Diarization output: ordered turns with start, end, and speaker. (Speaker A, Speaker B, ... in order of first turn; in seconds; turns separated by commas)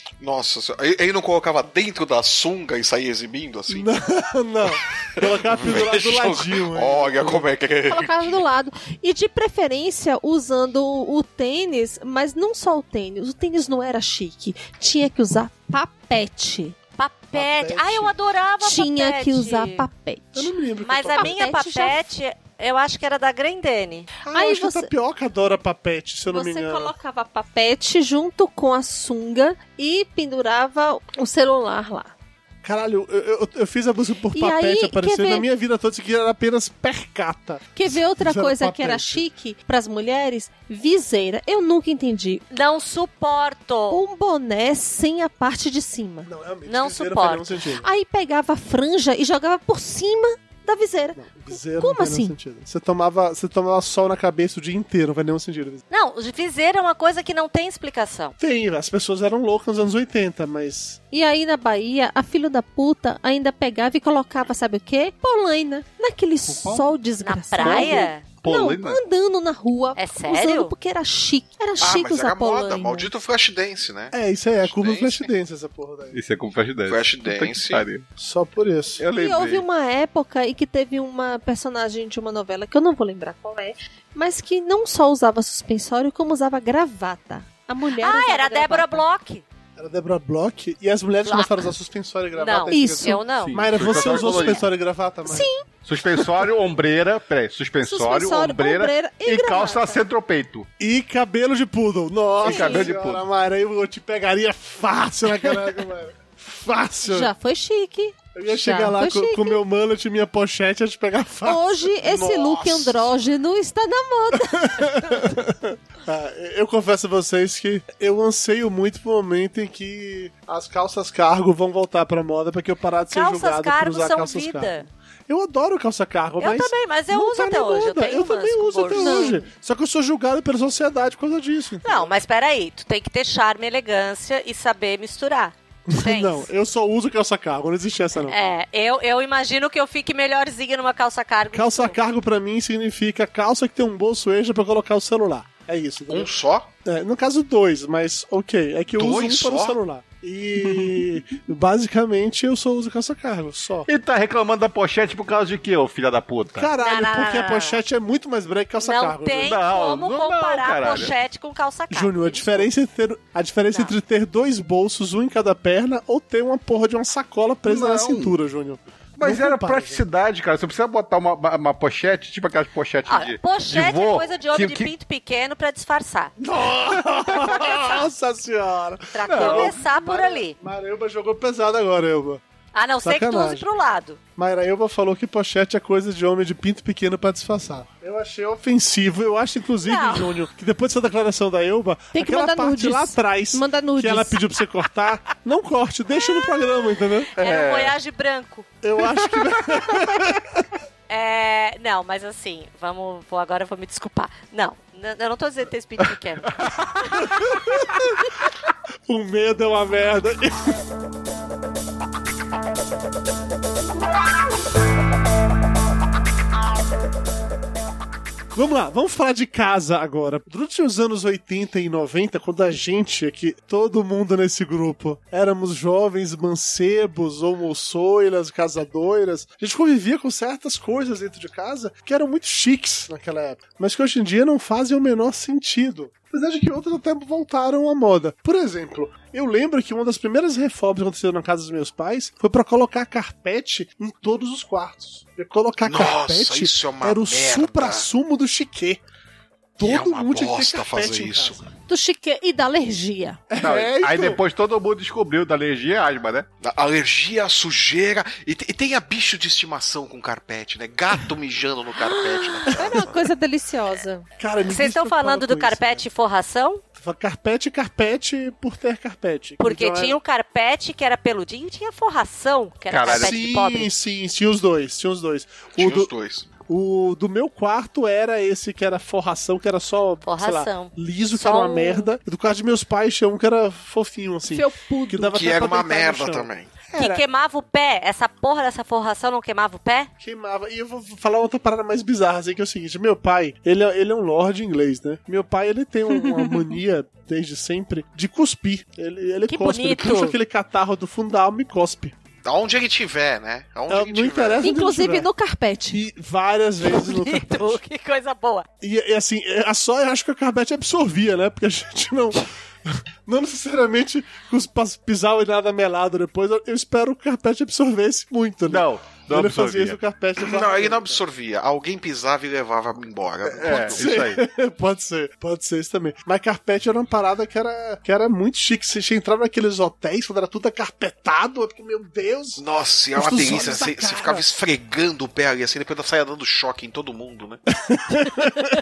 Speaker A: 0.2-3.9, Speaker B: 3.7-7.5, Speaker A: 4.7-8.4, Speaker C: 7.9-16.8, Speaker D: 17.0-19.9, Speaker B: 17.3-18.1, Speaker C: 18.6-20.5, Speaker B: 20.3-21.3, Speaker D: 20.8-24.1, Speaker C: 21.1-22.1, Speaker B: 24.2-26.9, Speaker C: 24.3-24.9, Speaker C: 26.3-32.1, Speaker B: 32.6-39.2, Speaker C: 34.3-35.4, Speaker C: 37.7-42.4, Speaker D: 42.5-44.0, Speaker C: 43.9-46.3, Speaker B: 46.2-47.9, Speaker D: 46.6-47.6, Speaker C: 47.8-51.2, Speaker B: 51.1-55.8, Speaker C: 51.8-52.3, Speaker D: 55.9-58.3, Speaker B: 58.4-61.0, Speaker C: 61.1-73.1, Speaker E: 66.5-66.8, Speaker D: 67.2-68.2, Speaker B: 67.6-68.0, Speaker E: 68.4-69.0, Speaker D: 70.0-70.7, Speaker A: 71.8-75.3, Speaker B: 74.1-76.2, Speaker E: 76.1-78.0, Speaker A: 76.9-77.8, Speaker B: 78.2-79.0, Speaker E: 79.0-79.6, Speaker C: 79.1-89.0, Speaker D: 88.0-89.4, Speaker B: 89.8-95.5, Speaker D: 91.2-91.7, Speaker D: 92.3-94.2, Speaker C: 92.7-93.2, Speaker E: 93.4-94.7, Speaker C: 95.2-95.6, Speaker E: 95.8-100.7, Speaker C: 97.8-100.0, Speaker B: 100.8-107.3, Speaker C: 102.4-102.9, Speaker E: 102.4-103.2, Speaker C: 107.0-109.6, Speaker B: 108.3-112.7, Speaker C: 111.4-115.2, Speaker A: 112.0-113.0, Speaker B: 114.5-132.1, Speaker D: 123.1-124.9, Speaker D: 126.4-129.4, Speaker C: 129.0-129.5, Speaker D: 131.8-136.5, Speaker B: 135.9-138.4, Speaker D: 138.2-142.0, Speaker B: 141.5-146.3, Speaker A: 146.1-146.7, Speaker B: 146.8-153.9, Speaker A: 148.9-149.8, Speaker E: 150.6-150.9, Speaker E: 153.9-156.7, Speaker B: 156.5-159.6, Speaker D: 156.8-157.8, Speaker D: 158.8-162.7, Speaker E: 159.4-161.1, Speaker B: 161.9-170.0, Speaker D: 163.7-163.9, Speaker E: 167.7-168.3, Speaker E: 169.2-174.9, Speaker D: 173.1-176.3, Speaker B: 176.4-182.4, Speaker D: 177.6-177.9, Speaker D: 179.1-180.6, Speaker E: 179.3-179.8, Speaker D: 182.7-184.2, Speaker B: 183.0-183.7, Speaker B: 184.3-197.3, Speaker D: 189.8-190.4, Speaker C: 192.1-194.4, Speaker D: 197.4-198.7, Speaker E: 197.4-197.9, Speaker B: 198.8-200.5, Speaker D: 201.1-207.6, Speaker B: 209.1-210.8, Speaker B: 218.5-249.0, Speaker A: 245.8-248.1, Speaker B: 249.8-251.7, Speaker A: 249.8-251.6, Speaker C: 251.9-253.4, Speaker B: 253.5-254.4, Speaker E: 253.6-256.5, Speaker A: 256.6-263.2, Speaker C: 261.9-264.2, Speaker B: 264.4-266.0, Speaker D: 264.7-266.8, Speaker B: 266.9-270.2, Speaker D: 269.6-273.9, Speaker E: 272.9-273.3, Speaker B: 273.1-276.1, Speaker A: 275.8-276.5, Speaker B: 276.7-287.2, Speaker D: 280.2-282.1, Speaker C: 284.5-285.4, Speaker A: 285.3-286.7, Speaker D: 286.9-290.1, Speaker B: 290.2-302.1, Speaker D: 299.5-300.4, Speaker A: 302.4-304.7, Speaker B: 303.9-305.3, Speaker C: 304.6-306.0, Speaker B: 305.9-307.8, Speaker D: 306.8-308.7, Speaker B: 308.8-321.2, Speaker E: 318.7-320.0, Speaker A: 320.4-324.2, Speaker B: 323.4-332.6, Speaker E: 323.6-324.4, Speaker A: 332.6-337.6, Speaker B: 333.1-334.4, Speaker B: 337.9-338.7